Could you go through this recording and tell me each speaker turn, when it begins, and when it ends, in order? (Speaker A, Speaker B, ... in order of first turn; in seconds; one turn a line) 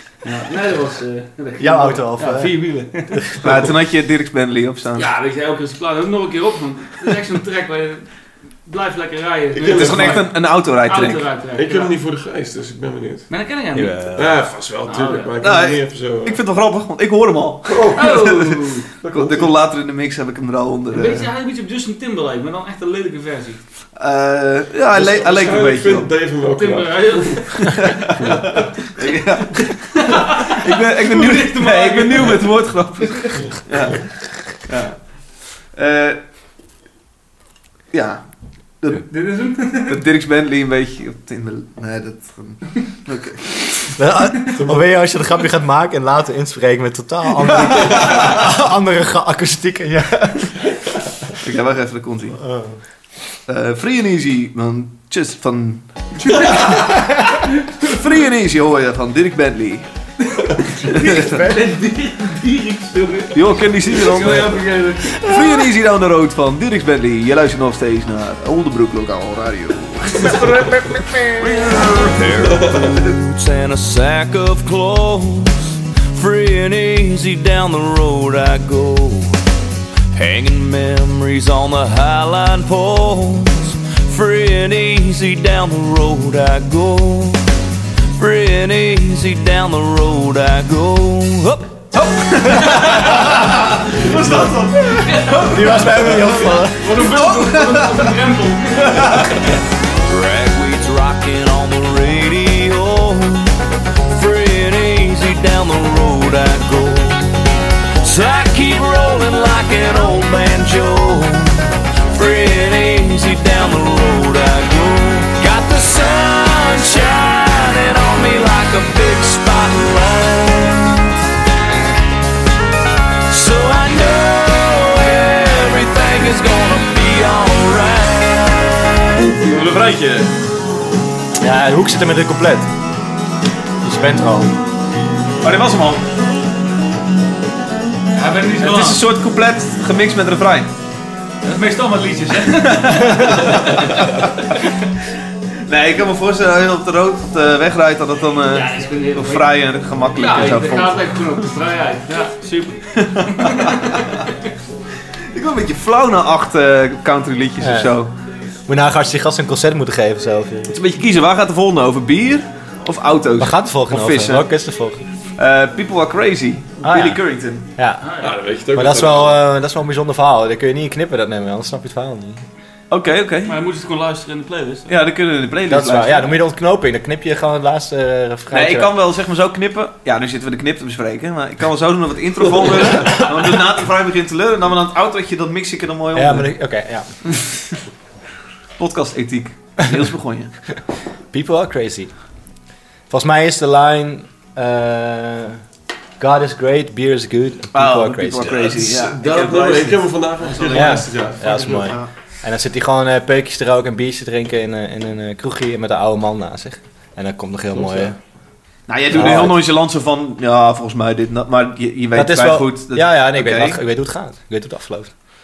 Speaker A: 0.2-3.4
Speaker B: 1.6-3.4
Speaker C: 3.4-5.1
Speaker A: 4.9-11.9
Speaker D: 9.5-10.3
Speaker C: 9.7-11.3
Speaker D: 11.5-13.3
Speaker A: 13.3-14.0
Speaker B: 13.7-14.4
Speaker D: 14.2-16.4
Speaker A: 14.8-15.3
Speaker C: 15.4-18.5
Speaker D: 17.6-19.5
Speaker A: 17.9-18.8
Speaker C: 19.1-21.3
Speaker A: 20.9-23.6
Speaker C: 23.9-26.1
Speaker D: 24.9-28.9
Speaker A: 26.5-27.9
Speaker C: 28.9-36.2
Speaker A: 30.1-32.6
Speaker C: 37.9-43.7
Speaker A: 39.0-40.0
Speaker B: 44.0-50.8
Speaker D: 44.5-44.9
Speaker C: 51.4-52.4
Speaker B: 52.4-52.8
Speaker C: 53.5-56.9
Speaker C: 57.8-59.9
Speaker A: 60.3-65.3
Speaker C: 60.9-61.4
Speaker C: 63.3-64.6
Speaker D: 64.2-64.4
Speaker C: 65.2-70.7
Speaker E: 71.4-75.5
Speaker D: 72.4-73.0
Speaker E: 76.1-79.4
Speaker E: 80.1-87.4
Speaker E: 88.2-92.0
Speaker C: 92.0-93.4
Speaker A: 92.6-93.3
Speaker D: 93.9-94.5
Speaker C: 93.9-94.7
Speaker A: 94.2-99.4
Speaker B: 94.7-97.0
Speaker C: 95.3-98.0
Speaker E: 100.0-103.5
Speaker E: 104.1-107.2
Speaker E: 108.0-111.6
Speaker E: 112.1-121.1
Speaker E: 123.3-128.7
Speaker C: 129.2-130.3
Speaker B: 131.4-132.7
Speaker B: 133.8-134.5
Speaker C: 135.4-136.0
Speaker A: 138.1-139.1
Speaker C: 138.6-140.7
Speaker A: 141.4-144.2
Speaker C: 142.7-143.7
Speaker C: 145.7-151.1
Speaker A: 148.5-154.3
Speaker C: 153.0-153.9
Speaker C: 155.3-158.1
Speaker B: 157.6-157.9
Speaker B: 158.7-160.8
Speaker C: 160.7-164.5
Speaker B: 163.4-165.0
Speaker C: 165.3-167.7
Speaker B: 166.8-167.2
Speaker B: 167.8-168.1
Speaker A: 168.0-168.4
Speaker D: 168.2-169.4
Speaker B: 168.7-172.4
Speaker C: 172.9-173.6
Speaker A: 173.5-174.9
Speaker C: 174.9-176.3
Speaker B: 175.7-178.9
Speaker C: 178.5-186.6
Speaker B: 186.1-187.2
Speaker C: 188.8-190.5
Speaker B: 191.3-192.1
Speaker B: 193.1-195.6
Speaker B: 196.2-198.5
Speaker C: 197.7-202.1
Speaker D: 198.4-201.9
Speaker B: 200.7-208.2
Speaker D: 207.7-208.2
Speaker C: 208.9-213.8
Speaker B: 209.1-209.6
Speaker B: 212.1-215.1